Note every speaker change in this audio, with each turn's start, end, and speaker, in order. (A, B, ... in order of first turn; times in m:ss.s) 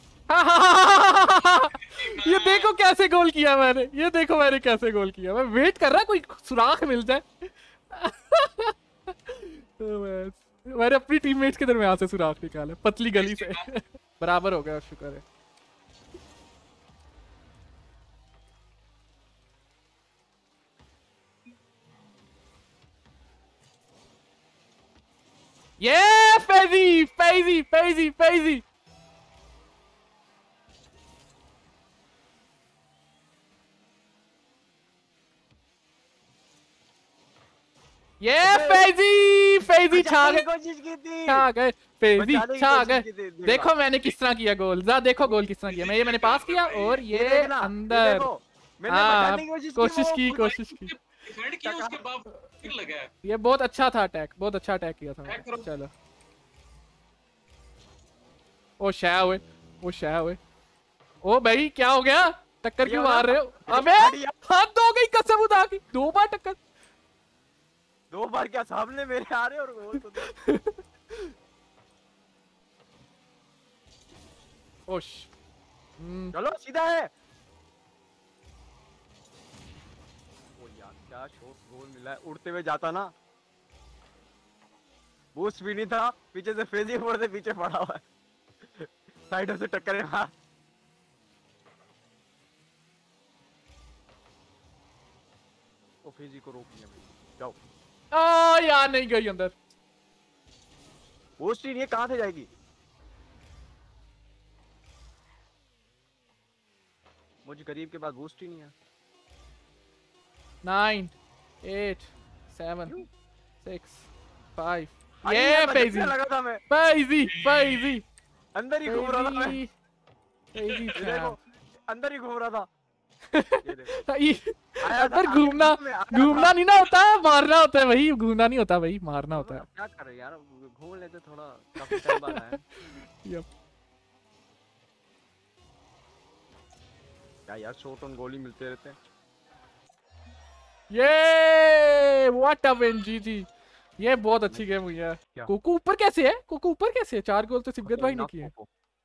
0:00.3-0:15.2 A
0:01.5-0:02.7 B
0:13.2-0:13.7 B
0:25.8-0:28.6 A
0:38.2-0:40.5 A
0:38.4-0:38.9 C
0:39.9-0:41.5 C
0:41.3-0:48.3 A
0:42.2-0:43.7 C
0:45.2-0:47.1 B
0:47.1-0:50.6 C
0:48.9-0:50.9 A
0:50.6-0:53.1 B
0:51.6-0:52.0 C
0:53.2-0:55.9 A
0:55.3-0:55.7 B
0:58.8-1:00.4 A
1:01.2-1:06.6 A
1:02.8-1:04.4 C
1:08.1-1:10.3 C
1:10.2-1:11.3 A
1:14.9-1:15.3 A
1:16.0-1:16.4 A
1:16.3-1:17.1 C
1:20.6-1:23.1 C
1:25.4-1:28.0 C
1:28.6-1:30.3 C
1:36.0-1:37.6 C
1:38.1-1:39.6 A
1:41.4-1:42.5 C
1:47.4-1:48.7 C
1:50.6-1:53.0 A
1:53.6-1:56.2 A
1:55.2-1:56.6 C
1:56.7-1:58.0 A
1:57.3-1:58.0 B
1:58.6-1:59.6 C
1:58.8-1:59.7 A
2:00.6-2:01.4 A
2:01.0-2:02.7 C
2:03.3-2:09.6 A
2:03.6-2:04.0 C
2:04.8-2:06.6 C
2:09.4-2:12.6 C
2:11.9-2:13.5 A
2:17.5-2:19.0 C
2:20.9-2:28.5 A
2:27.8-2:28.7 C